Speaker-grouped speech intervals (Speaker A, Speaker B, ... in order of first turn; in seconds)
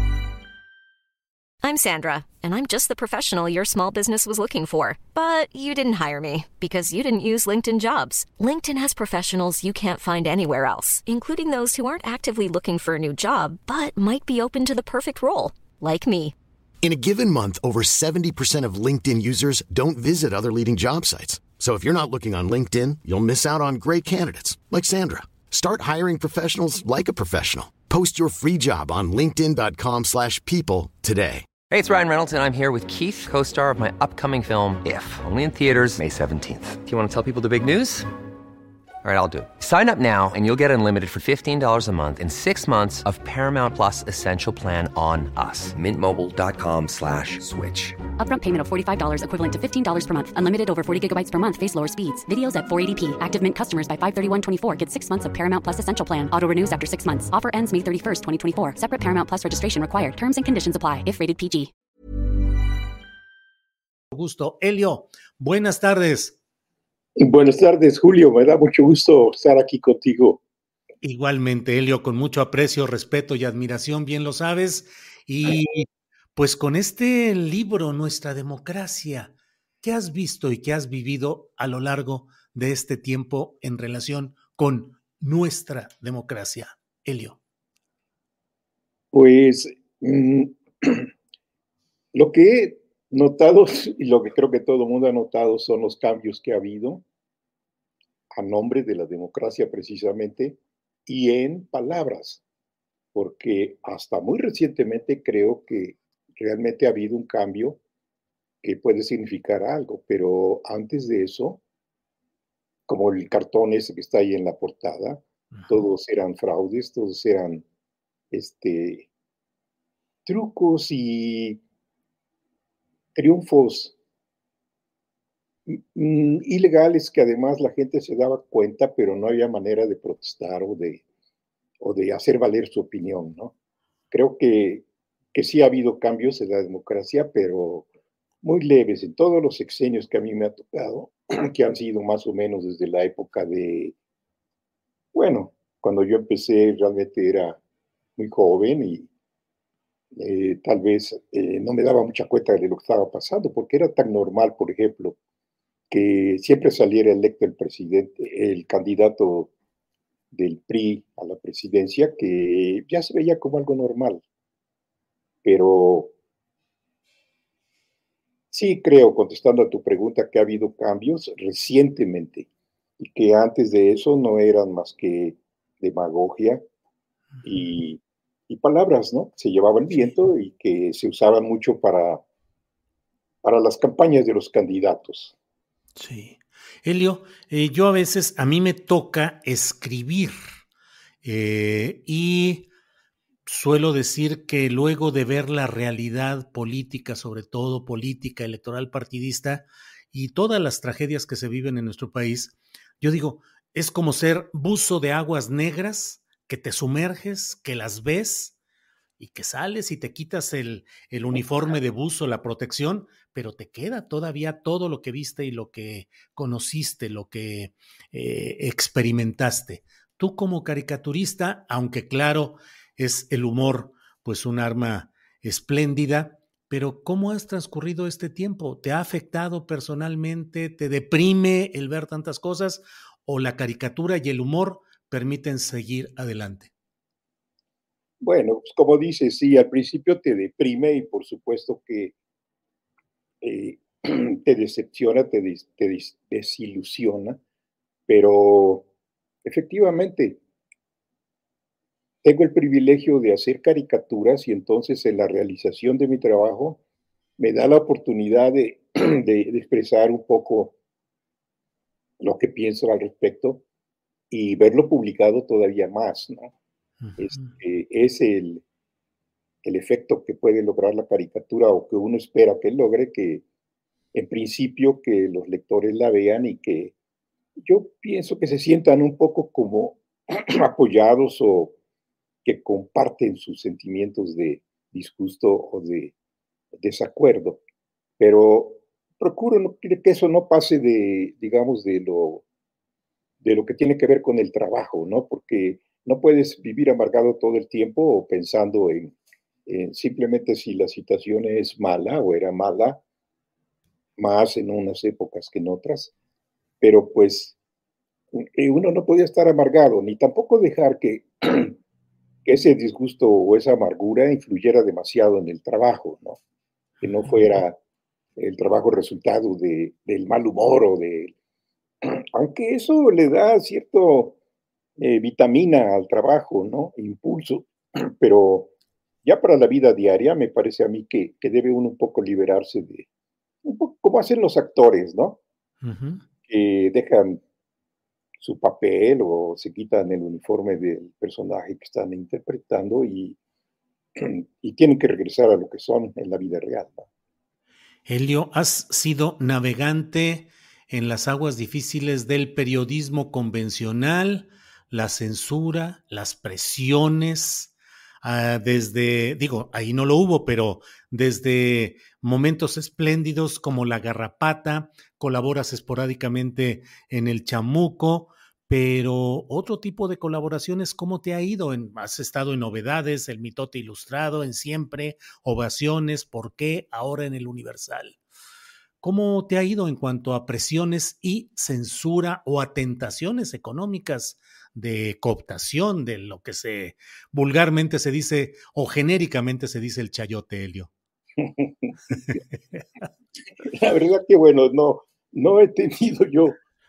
Speaker A: 1.6-16.4
Speaker B: 16.8-31.5
Speaker C: 31.7-38.1, 39.0-48.0
Speaker D: 48.2-61.7
Speaker E: 64.1-66.4, 71.0-87.4, 177.4-177.7, 186.0-190.4, 191.2-192.7, 193.5-208.6, 209.2-236.7, 267.0-267.5, 317.0-317.4, 335.8-336.2, 348.1-378.2, 379.0-390.9
Speaker F: 67.2-70.4, 89.1-91.1, 92.1-97.0, 98.3-102.4, 103.1-107.8, 108.6-111.6, 112.9-117.6, 118.3-119.1, 120.3-121.6, 123.2-124.0, 125.7-131.0, 131.8-133.5, 134.1-137.9, 138.4-143.9, 145.1-147.6, 148.2-149.1, 150.1-155.2, 155.9-159.5, 160.3-164.2, 165.4-166.1, 168.5-172.5, 173.0-176.6, 177.4-182.2, 183.4-185.3, 238.2-242.1, 243.4-247.4, 248.1-248.8, 249.4-250.4, 252.2-256.8, 257.4-260.7, 262.2-263.6, 264.3-266.5, 267.2-268.6, 269.6-273.4, 274.1-276.9, 277.6-281.8, 282.4-286.1, 286.8-287.6, 288.2-292.4, 293.4-299.1, 299.7-303.0, 304.2-306.1, 306.8-307.6, 308.3-311.8, 312.5-316.4, 317.0-317.8, 318.4-321.3, 322.0-324.4, 325.0-328.7, 329.2-333.1, 333.6-335.4, 336.5-337.4, 338.4-343.4, 344.2-347.1, 391.4-391.9, 393.6-396.6